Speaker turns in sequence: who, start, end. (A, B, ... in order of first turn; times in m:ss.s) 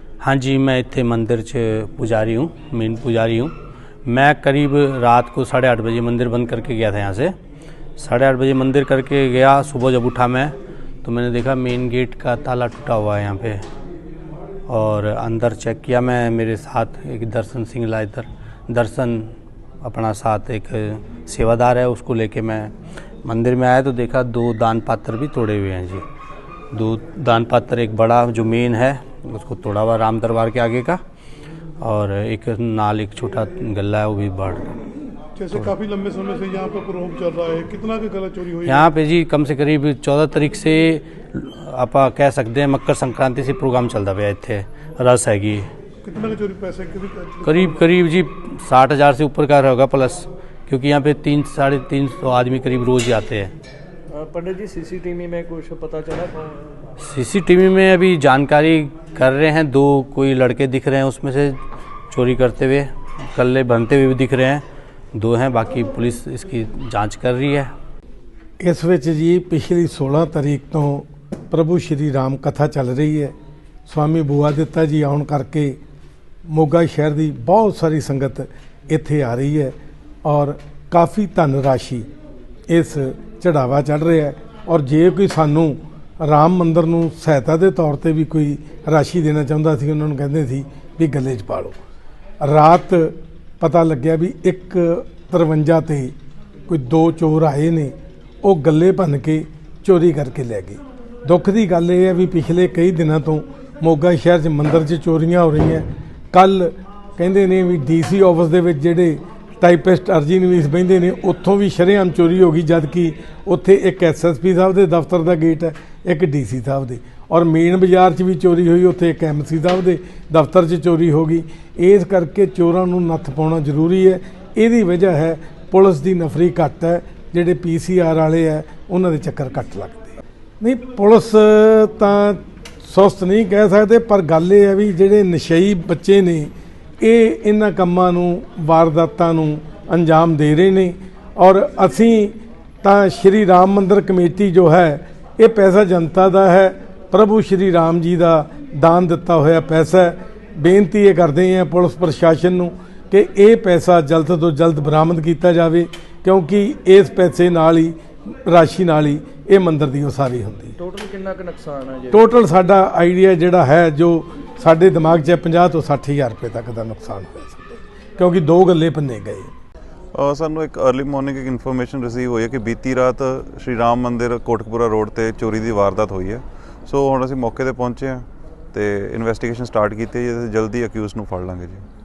0:00.2-0:03.5 A
0:04.1-0:07.3 A
0:08.0-0:13.6 A
0:14.7-0:22.7 A
0:23.2-0:26.0 A
0:26.7-0:31.0 A
0:31.8-0:34.7 A
0:35.4-0:38.9 B
0:38.6-0:45.7 A
0:46.0-0:47.8 B
0:47.4-0:53.5 A
0:54.1-0:56.8 C
0:57.0-1:01.6 A
1:02.1-1:07.7 A
1:08.6-1:13.3 D
1:13.9-1:15.8 D
1:16.5-1:22.1 D
1:22.7-1:31.8 D
1:32.4-1:36.1 D
1:36.7-2:40.8 D
2:40.8-2:42.3 C
2:42.1-2:49.5 D
2:50.1-3:01.8 E